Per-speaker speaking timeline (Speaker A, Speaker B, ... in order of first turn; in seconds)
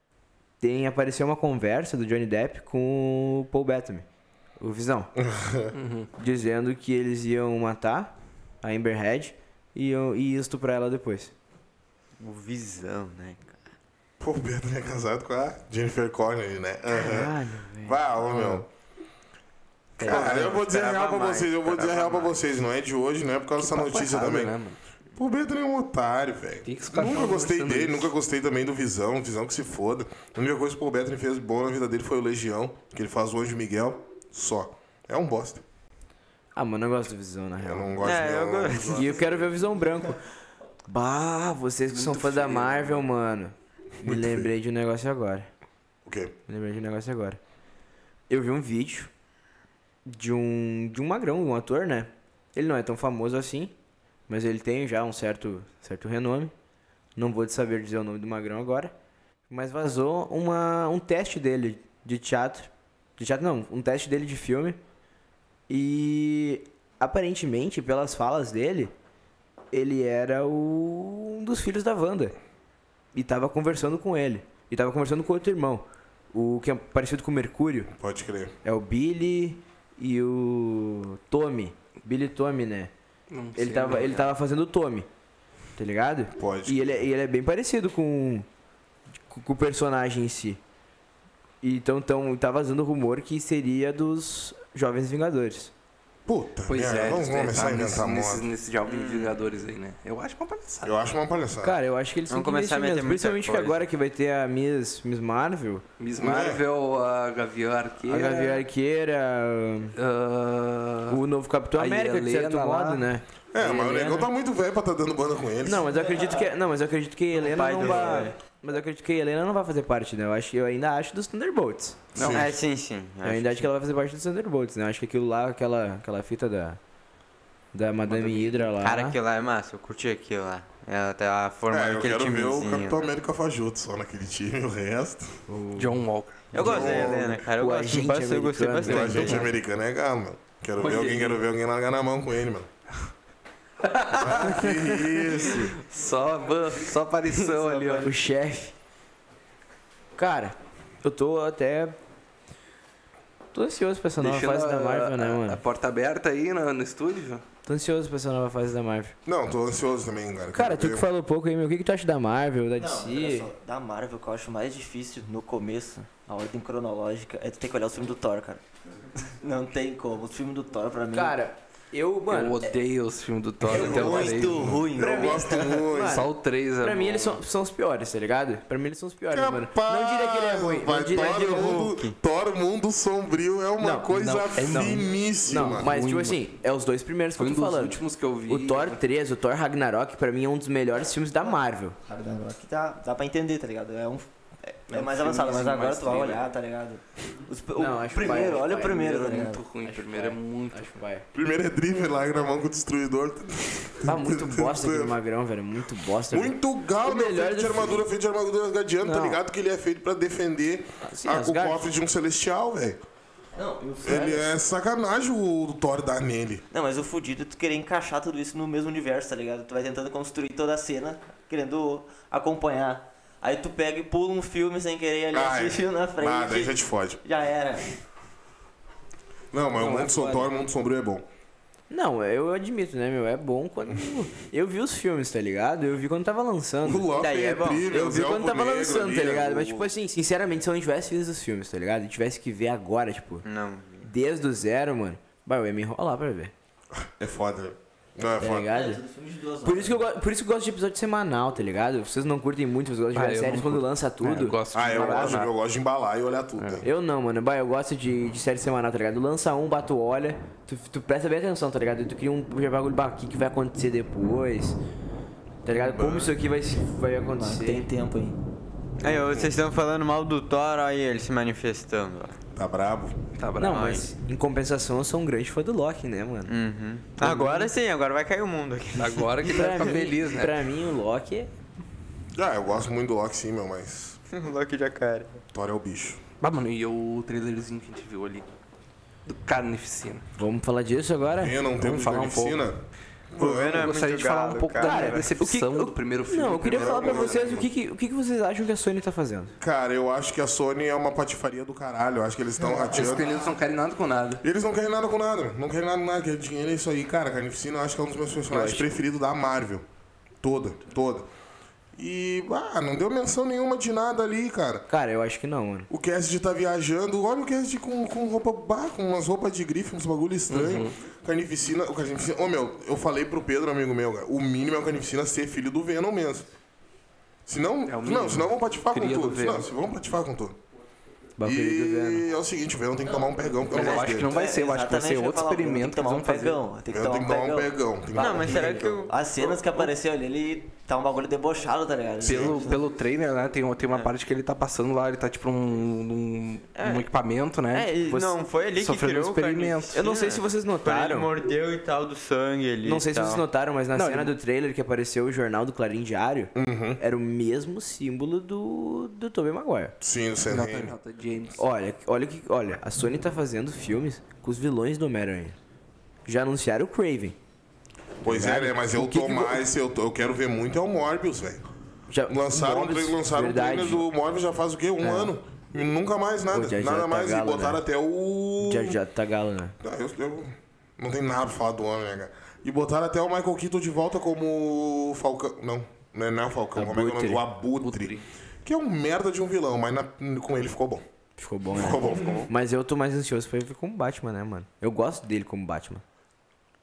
Speaker A: 0.6-4.0, 4.6-5.1, 6.2-11.3, 16.9-18.6, 20.0-20.4, 36.5-38.1, 38.8-40.2, 40.9-45.5, 46.5-47.4, 48.3-49.1, 50.0-53.7, 54.3-56.5, 57.2-58.9, 59.5-64.8, 65.7-68.9, 69.7-72.3, 73.1-77.9, 78.6-82.9, 83.5-85.1, 85.8-88.5, 89.3-90.6, 91.6-95.7, 101.6-105.8, 108.0-110.0, 111.1-114.3, 115.6-122.1, 123.2-126.8, 127.7-129.2, 135.5-136.0, 136.6-139.5, 144.4-144.7, 148.0-148.7, 150.2-152.0, 153.5-155.6, 157.7-159.2, 160.5-163.5, 171.1-172.7, 174.9-181.9, 183.8-184.1, 184.7-192.0, 197.8-199.2, 199.8-201.3, 204.0-208.1, 209.0-209.4, 211.0-211.9, 229.8-230.5, 231.9-243.4, 244.0-246.5, 248.4-249.0, 249.6-255.4, 256.8-264.8, 265.6-267.8, 273.6-276.5, 277.2-277.7, 279.4-281.5, 290.4-291.6, 294.8-299.5, 308.5-308.9, 314.9-315.9, 331.4-332.2, 348.1-348.4, 349.9-351.3, 352.8-359.9, 361.6-365.6, 366.2-367.4, 368.2-369.6, 372.1-374.1, 375.0-375.3, 376.5-377.8, 378.6-379.7, 386.7-387.4, 391.4-396.0
Speaker B: 5.2-5.7, 14.2-18.6, 20.0-24.5, 25.1-35.6, 37.6-39.1, 44.0-44.5, 46.0-46.3, 78.0-78.5, 86.4-87.0, 96.2-98.5, 100.8-101.8, 106.2-106.6, 113.5-115.9, 122.1-122.5, 131.7-135.4, 136.5-137.4, 138.8-142.7, 144.1-145.7, 159.2-161.1, 173.7-176.3, 179.3-185.9, 201.3-205.1, 206.3-213.0, 214.0-216.6, 225.3-227.2, 229.5-231.2, 236.8-239.9, 246.9-248.7, 254.7-256.9, 265.8-266.3, 269.0-269.6, 272.5-273.1, 282.3-284.2, 285.5-286.2, 291.4-292.8, 293.3-294.0, 296.7-297.7, 299.6-303.4, 304.4-309.9, 310.4-311.3, 311.9-314.9, 315.9-326.5, 327.4-330.6, 331.4-334.3, 336.9-339.1, 342.2-342.7, 356.5-357.0, 360.0-360.9, 368.2-371.6, 372.3-379.0, 379.8-391.0, 391.7-392.5
Speaker C: 5.7-6.1, 23.6-24.8, 26.6-28.1, 41.9-43.0, 83.3-84.3, 96.7-101.0, 106.0-108.6, 110.0-111.2, 111.7-113.1, 122.2-122.5, 128.1-128.5, 135.8-136.9, 140.8-141.4, 143.9-144.6, 145.5-148.1, 154.2-157.4, 172.3-174.8, 175.9-177.4, 184.1-186.5, 187.4-189.0, 194.9-196.4, 198.2-200.9, 253.1-255.5, 256.6-256.8, 273.4-273.9, 279.0-280.5, 286.4-288.5, 289.2-290.2, 291.8-292.7, 293.6-297.6, 302.7-304.4, 320.5-320.9, 327.9-329.7, 333.7-336.6, 342.2-348.0, 348.8-350.0, 353.9-354.3, 360.5-361.6, 387.8-388.2
Speaker D: 12.2-13.6, 17.1-17.4, 20.0-22.3, 38.0-39.2, 98.8-99.4, 102.3-103.9, 117.4-118.3, 122.2-123.7, 128.8-133.0, 136.5-139.4, 147.4-148.1, 181.2-182.1, 237.2-237.9, 243.4-244.1, 269.0-272.4, 273.6-274.1, 276.5-280.0, 284.3-285.4, 293.4-295.3, 338.1-339.8, 346.8-347.1, 347.7-353.4
Speaker E: 115.9-116.5, 162.8-168.6, 169.2-171.4, 173.7-175.8, 192.1-199.6, 213.6-214.5, 216.7-227.9, 248.7-250.1, 267.4-268.4, 333.1-342.8